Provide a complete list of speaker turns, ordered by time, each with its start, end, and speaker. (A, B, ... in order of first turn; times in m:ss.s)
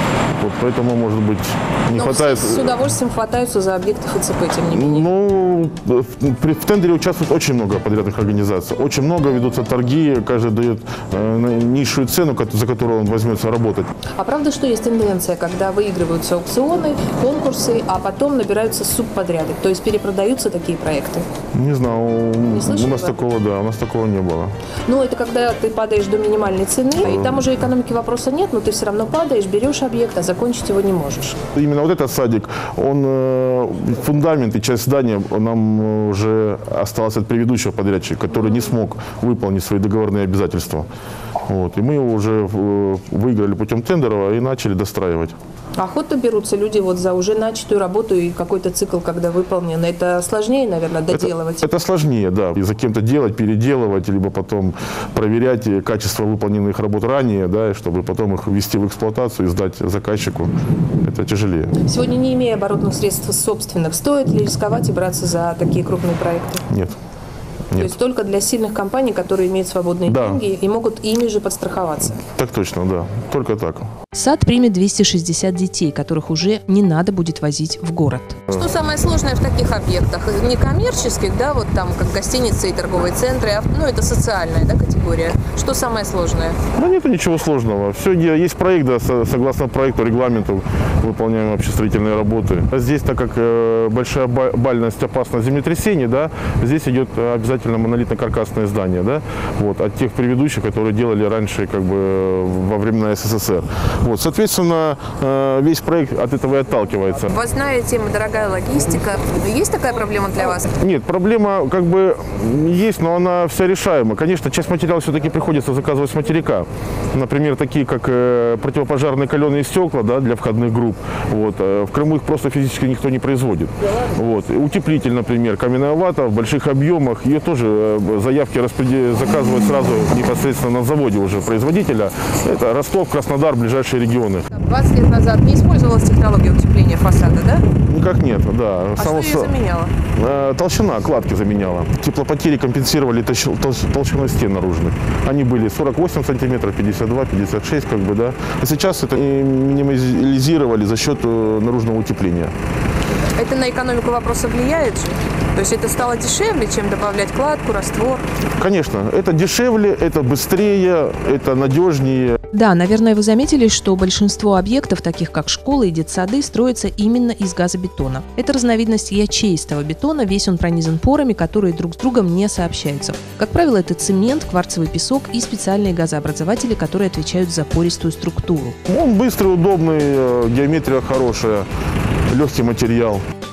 0:00.4-0:02.7 A
0:01.9-0:05.1 B
0:04.7-0:13.9 A
0:14.2-0:21.3 B
0:21.5-0:24.5 A
0:22.5-0:23.2 B
0:24.9-0:31.4 B
0:27.0-0:27.5 A
0:31.6-0:40.9 A
0:41.4-0:45.4 A
0:45.8-0:51.7 B
0:51.1-1:01.7 A
1:01.9-1:06.6 B
1:06.7-1:07.0 A
1:07.8-1:12.2 B
1:10.1-1:10.4 A
1:12.2-1:13.9 A
1:14.1-1:18.4 C
1:18.5-1:26.6 B
1:26.8-1:47.3 A
1:47.3-1:50.6 B
1:50.8-2:14.5 A
2:14.5-2:17.6 B
2:17.8-2:19.5 A
2:19.0-2:19.9 B
2:20.2-2:32.5 A
2:33.4-2:38.2 B
2:38.6-2:42.4 A
2:42.5-2:58.8 C
2:58.9-3:01.7 A
3:02.3-3:03.2 A